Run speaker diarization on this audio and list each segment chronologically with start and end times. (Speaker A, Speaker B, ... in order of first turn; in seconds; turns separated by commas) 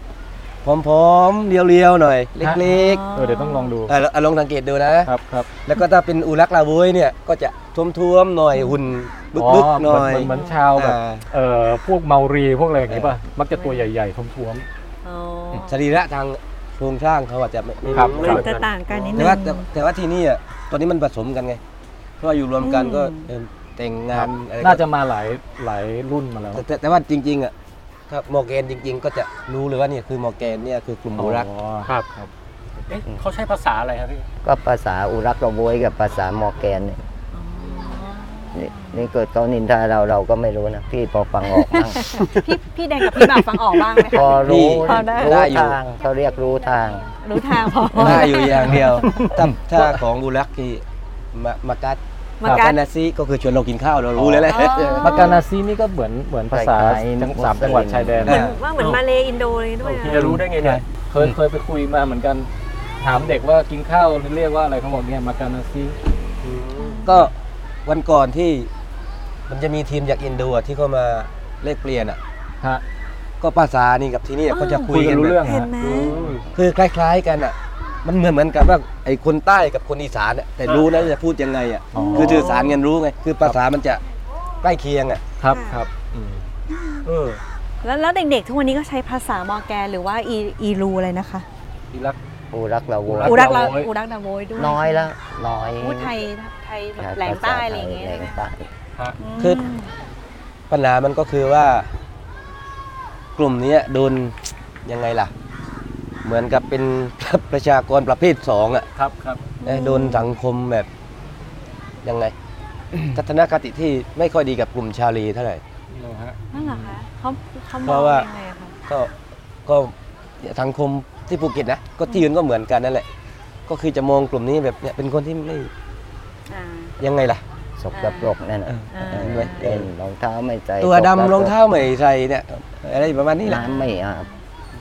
Speaker A: 0.6-3.0, Speaker B: 2.4-3.9, Speaker C: 2.7-3.8, Speaker A: 3.9-5.1, Speaker B: 5.1-5.6, Speaker A: 5.6-11.3, Speaker B: 9.3-14.7, Speaker C: 10.2-10.7, Speaker A: 12.9-13.1, Speaker C: 13.5-13.9, Speaker C: 15.0-15.8, Speaker A: 15.5-18.5, Speaker D: 17.8-19.1, Speaker B: 17.9-18.5, Speaker C: 18.2-19.7, Speaker A: 19.1-21.6, Speaker A: 22.2-24.9, Speaker C: 22.6-23.3, Speaker B: 24.1-26.6, Speaker A: 26.5-27.5, Speaker A: 28.1-31.5, Speaker B: 31.2-32.3, Speaker D: 32.9-34.3, Speaker E: 34.4-37.0, Speaker C: 37.3-39.0, Speaker E: 38.5-42.0, Speaker C: 41.5-45.5, Speaker E: 44.1-47.1, Speaker A: 44.4-45.8, Speaker C: 47.2-49.3, Speaker A: 47.9-55.3, Speaker C: 52.4-52.8, Speaker B: 54.2-54.4, Speaker C: 54.5-55.4, Speaker B: 55.0-58.4, Speaker E: 56.5-58.3, Speaker C: 58.2-60.3, Speaker A: 58.3-58.6, Speaker D: 59.8-60.8, Speaker B: 60.1-62.5, Speaker B: 63.0-66.0, Speaker D: 66.4-67.0, Speaker C: 66.8-67.3, Speaker A: 67.0-67.3, Speaker A: 67.9-68.7, Speaker A: 69.5-72.2, Speaker A: 73.4-75.5, Speaker C: 74.5-76.4, Speaker B: 74.9-75.7, Speaker D: 75.8-76.4, Speaker A: 76.5-84.0, Speaker D: 80.7-81.0, Speaker B: 81.9-82.6, Speaker C: 81.9-82.8, Speaker A: 84.6-85.2, Speaker B: 85.4-86.4, Speaker C: 85.5-85.9, Speaker C: 86.7-87.1, Speaker C: 87.8-91.5, Speaker B: 91.9-92.2, Speaker E: 92.5-93.8, Speaker B: 93.1-93.9, Speaker C: 93.2-95.1, Speaker E: 94.6-96.1, Speaker C: 95.8-98.4, Speaker E: 97.0-98.7, Speaker C: 99.2-99.9, Speaker A: 100.7-101.9, Speaker A: 103.4-105.3, Speaker A: 106.2-108.9, Speaker B: 109.0-109.5, Speaker C: 109.6-110.4, Speaker A: 109.6-110.9, Speaker A: 112.0-112.3, Speaker A: 113.1-115.6, Speaker B: 115.9-117.0, Speaker C: 116.5-118.8, Speaker A: 117.8-118.3, Speaker A: 118.9-119.1, Speaker A: 119.7-123.1, Speaker A: 123.7-125.7, Speaker C: 126.5-126.9, Speaker A: 127.0-127.4, Speaker E: 127.8-131.6, Speaker C: 127.9-128.3, Speaker A: 128.7-129.9, Speaker C: 128.9-129.7, Speaker A: 130.8-133.7, Speaker E: 133.4-134.3, Speaker C: 133.5-134.0